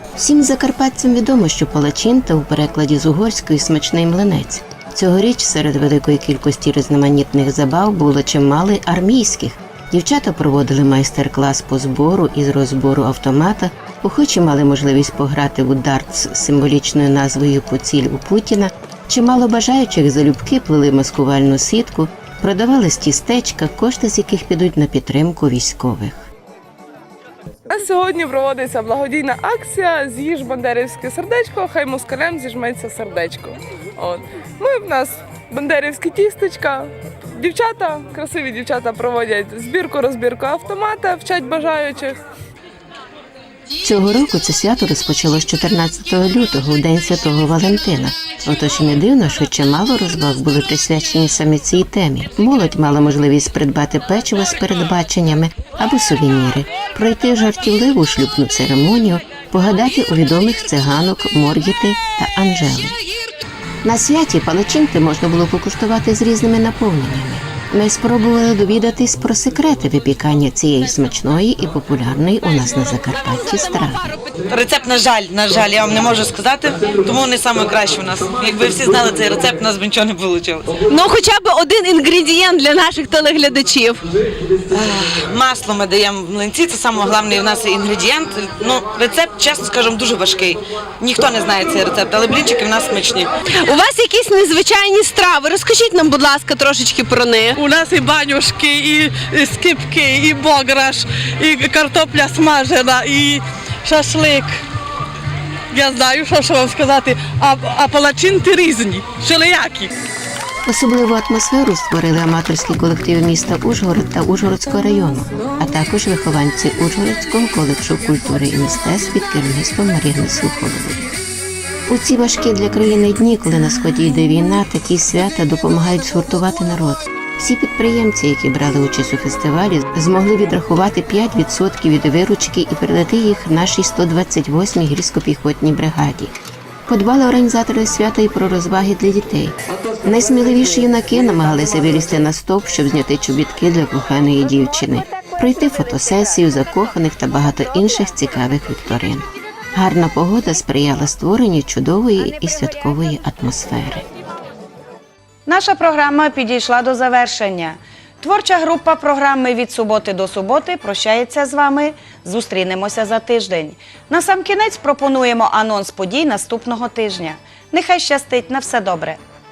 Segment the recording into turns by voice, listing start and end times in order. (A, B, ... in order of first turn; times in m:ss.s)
0:00.2-0:26.3 A
0:27.7-0:42.2 B
0:43.8-1:03.0 A
1:03.8-1:14.2 A
1:14.5-1:20.7 C
1:20.9-1:24.0 D
1:24.7-1:33.3 C
1:33.6-1:37.6 D
1:37.5-1:44.5 E
1:45.7-1:49.9 E
1:50.6-2:01.1 A
2:01.9-2:16.3 A
2:16.9-2:19.5 A
2:20.0-2:34.0 A
2:35.5-2:49.2 F